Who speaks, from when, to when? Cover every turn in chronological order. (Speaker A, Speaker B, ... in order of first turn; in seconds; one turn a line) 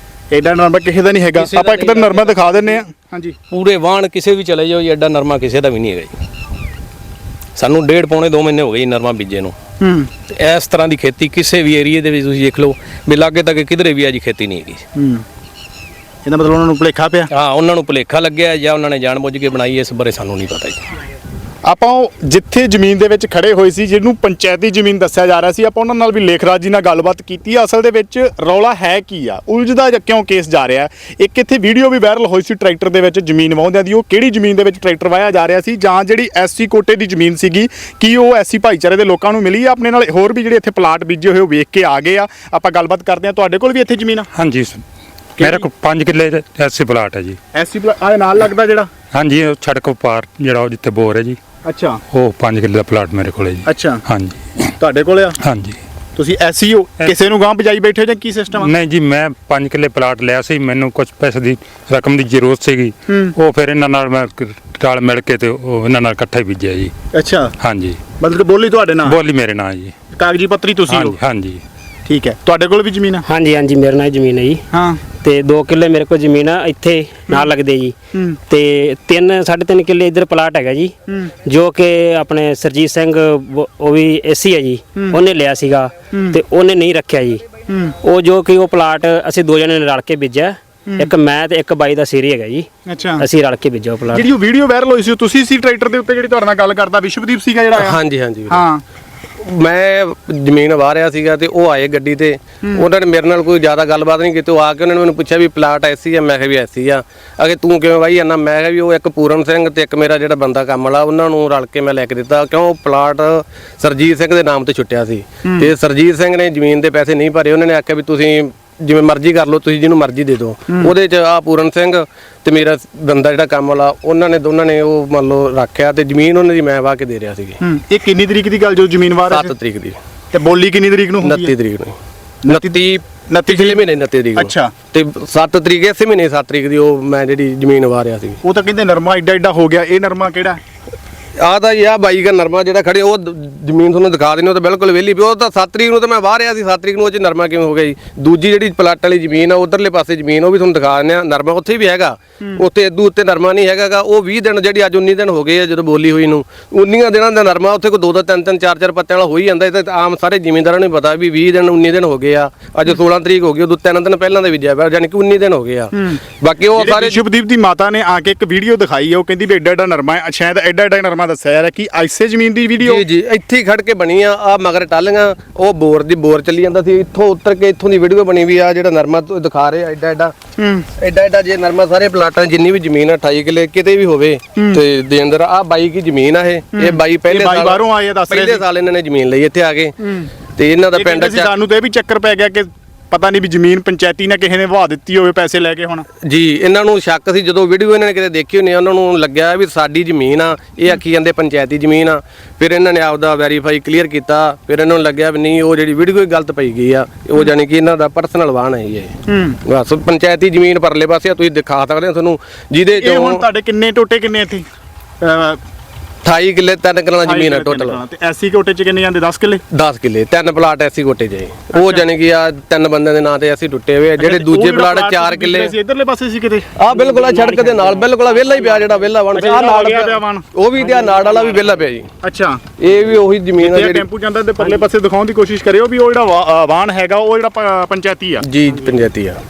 Speaker A: 0.3-3.4
Speaker B: 1.4-2.7
Speaker B: 3.5-6.1
Speaker B: 7.5-9.5
Speaker A: 9.8-10.1
Speaker B: 10.3-14.8
Speaker A: 14.9-15.2
Speaker A: 16.2-17.3
Speaker B: 17.3-20.8
Speaker A: 21.6-44.3
Speaker C: 44.3-44.8
Speaker C: 45.4-47.4
Speaker A: 45.4-45.7
Speaker A: 47.5-48.9
Speaker C: 49.1-51.4
Speaker A: 51.6-52.0
Speaker C: 52.1-54.7
Speaker A: 53.6-54.0
Speaker A: 54.8-55.4
Speaker C: 55.4-55.8
Speaker A: 56.1-58.7
Speaker C: 58.5-66.9
Speaker A: 63.1-63.3
Speaker A: 67.1-67.5
Speaker C: 67.6-68.0
Speaker A: 68.2-69.2
Speaker C: 69.0-69.9
Speaker A: 70.1-71.2
Speaker C: 70.9-71.6
Speaker A: 72.0-73.2
Speaker D: 73.3-74.6
Speaker A: 74.7-75.0
Speaker D: 75.1-87.4
Speaker A: 87.7-87.9
Speaker D: 88.0-94.2
Speaker A: 92.8-93.2
Speaker A: 94.1-98.8
Speaker E: 97.7-98.6
Speaker E: 99.4-127.6
Speaker A: 120.7-120.9
Speaker A: 127.6-129.5
Speaker E: 129.3-130.0
Speaker A: 130.3-131.5
Speaker E: 131.2-132.0
Speaker A: 132.4-133.8
Speaker E: 132.5-138.4
Speaker A: 134.3-134.7
Speaker A: 138.4-140.6
Speaker E: 141.4-167.2
Speaker A: 165.9-166.2
Speaker A: 166.7-173.0
Speaker E: 172.8-180.3
Speaker A: 180.6-180.9
Speaker E: 181.0-187.8
Speaker A: 184.5-184.8
Speaker A: 186.7-188.6
Speaker E: 188.3-189.9
Speaker A: 190.0-190.3
Speaker E: 190.6-191.5
Speaker A: 190.9-196.1
Speaker E: 196.2-209.1
Speaker A: 209.3-209.6
Speaker E: 209.7-213.4
Speaker A: 212.9-214.7
Speaker A: 215.2-215.6
Speaker E: 216.2-218.0
Speaker A: 217.2-219.6
Speaker E: 219.7-225.7
Speaker A: 221.7-222.0
Speaker A: 224.2-226.7
Speaker E: 226.8-232.1
Speaker D: 227.2-228.0
Speaker A: 229.3-230.4
Speaker A: 232.2-232.6
Speaker E: 232.8-234.0
Speaker A: 233.6-238.4
Speaker E: 238.4-239.4